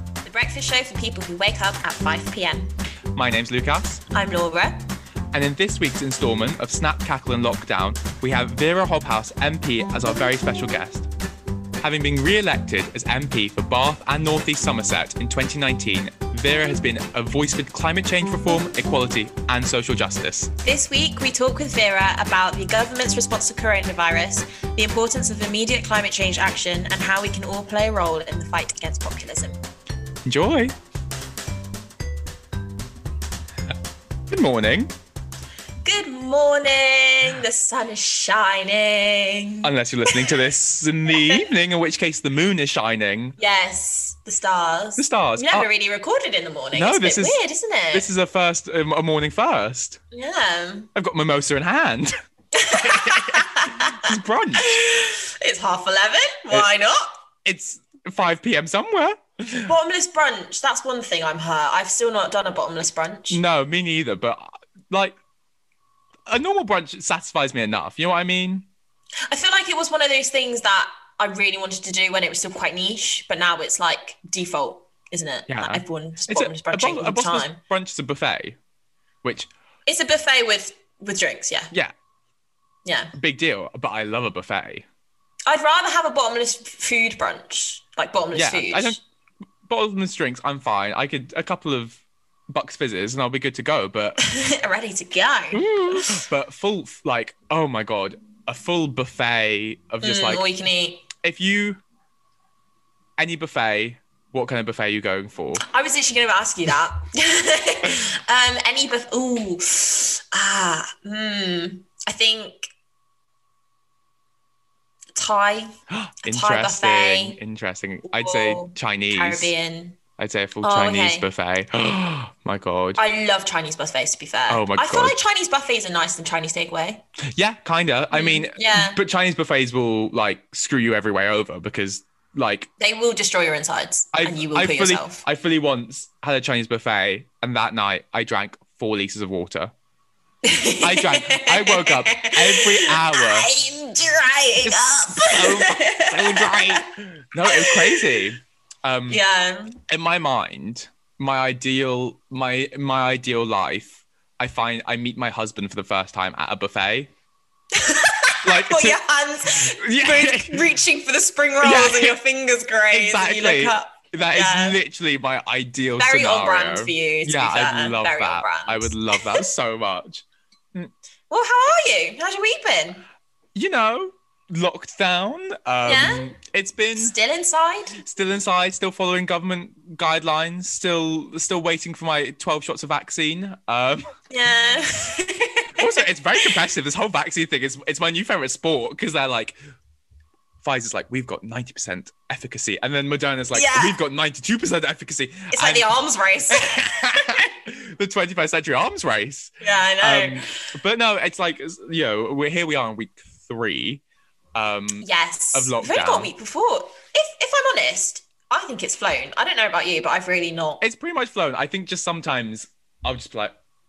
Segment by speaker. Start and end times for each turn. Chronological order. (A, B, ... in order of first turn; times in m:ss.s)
0:00.2-0:02.7 A
0:03.1-0:04.0 B
0:04.1-0:04.8 A
0:05.3-0:11.1 B
0:11.8-0:20.5 B
0:20.6-0:29.6 A
0:30.2-0:30.7 B
0:34.3-0:34.9 B
0:35.8-0:40.4 A
0:39.6-0:43.4 B
0:41.1-0:41.5 A
0:43.4-0:48.1 A
0:45.0-0:45.7 B
0:46.7-0:47.4 B
0:47.9-0:50.0 B
0:50.1-0:50.9 A
0:50.9-0:52.1 B
0:52.5-0:57.2 A
0:52.8-0:53.4 B
0:54.0-0:54.8 B
0:57.4-0:59.7 B
0:59.6-1:03.4 A
1:03.3-1:05.1 B
1:06.3-1:08.7 B
1:09.3-1:17.6 A
1:15.5-1:18.6 B
1:19.2-1:19.5 B
1:19.8-1:21.7 A
1:22.8-1:23.1 A
1:23.2-1:24.8 B
1:25.4-1:29.0 A
1:28.3-1:29.0 B
1:29.6-1:34.2 B
1:34.2-1:36.2 A
1:35.5-1:40.4 B
1:40.0-1:41.1 A
1:41.2-1:41.8 B
1:43.2-1:45.6 B
1:45.6-1:52.7 A
1:55.1-1:55.7 A
1:55.9-1:59.5 B
1:56.2-1:57.4 A
1:58.1-2:00.0 A
2:00.2-2:03.0 B
2:00.6-2:01.2 A
2:03.0-2:07.0 A
2:04.5-2:05.2 B
2:07.3-2:12.7 B
2:08.1-2:09.0 A
2:12.8-2:15.2 A
2:14.1-2:19.7 B
2:20.4-2:26.9 A
2:20.8-2:23.6 B
2:24.6-2:29.2 B
2:27.4-2:28.3 A
2:29.1-2:29.8 A
2:29.9-2:37.1 B
2:37.7-2:44.8 A
2:38.4-2:39.0 B
2:39.6-2:40.7 B
2:41.6-2:42.2 B
2:42.9-2:50.9 B
2:46.0-2:49.4 A
2:51.3-2:53.0 A
2:53.5-2:57.1 B
2:55.8-2:56.3 A
2:56.9-2:58.0 A
2:58.0-3:04.1 B
3:04.3-3:06.5 A
3:05.8-3:09.6 B
3:10.6-3:15.9 B
3:13.5-3:14.0 A
3:15.5-3:17.4 A
3:16.5-3:24.0 B
3:19.6-3:20.7 A
3:24.5-3:26.3 B
3:25.0-3:30.8 A
3:30.8-3:33.5 B